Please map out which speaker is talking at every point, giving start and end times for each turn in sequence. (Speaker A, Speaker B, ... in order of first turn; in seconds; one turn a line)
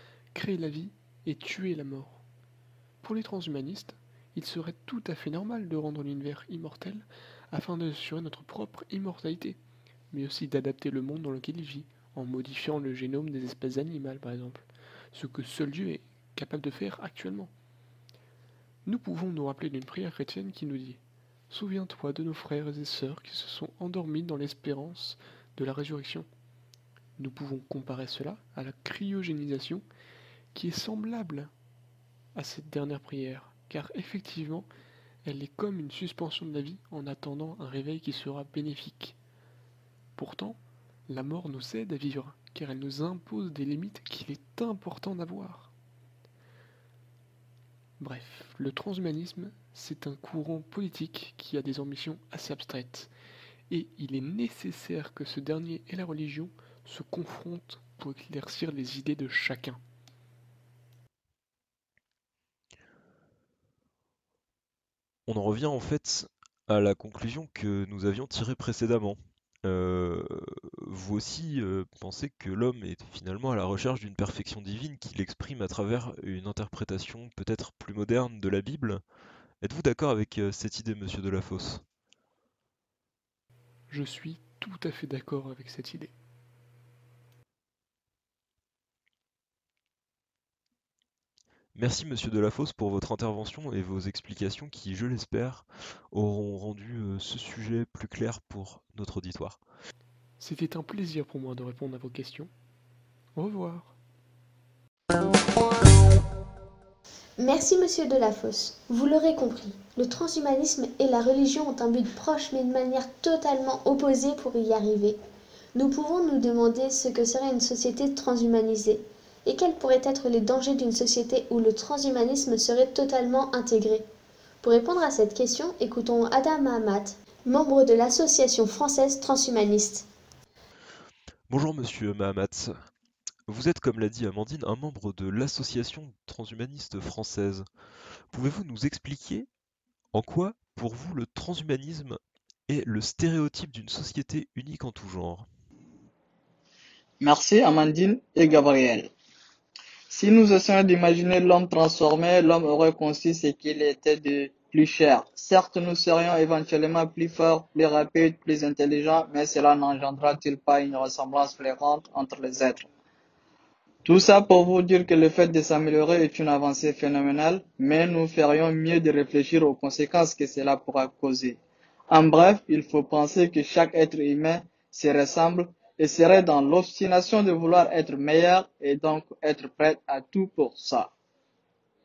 Speaker A: 0.3-2.2
Speaker A: 3.0-9.6
Speaker A: 10.1-17.5
Speaker A: 18.9-26.3
Speaker A: 27.2-29.8
Speaker A: 30.5-31.5
Speaker A: 32.3-34.7
Speaker A: 35.2-39.2
Speaker A: 40.2-45.7
Speaker A: 48.0-53.1
Speaker A: 53.7-59.8
Speaker B: 65.3-79.0
Speaker B: 79.6-81.8
Speaker A: 83.9-86.1
Speaker B: 91.7-99.6
Speaker A: 100.4-102.5
Speaker A: 103.3-103.9
Speaker C: 107.4-115.2
Speaker C: 115.7-124.0
Speaker C: 124.6-130.1
Speaker B: 131.5-132.7
Speaker B: 133.5-137.6
Speaker B: 138.3-139.5
Speaker B: 140.1-145.5
Speaker D: 147.2-149.1
Speaker D: 150.1-162.9
Speaker D: 164.0-171.6
Speaker D: 172.1-181.1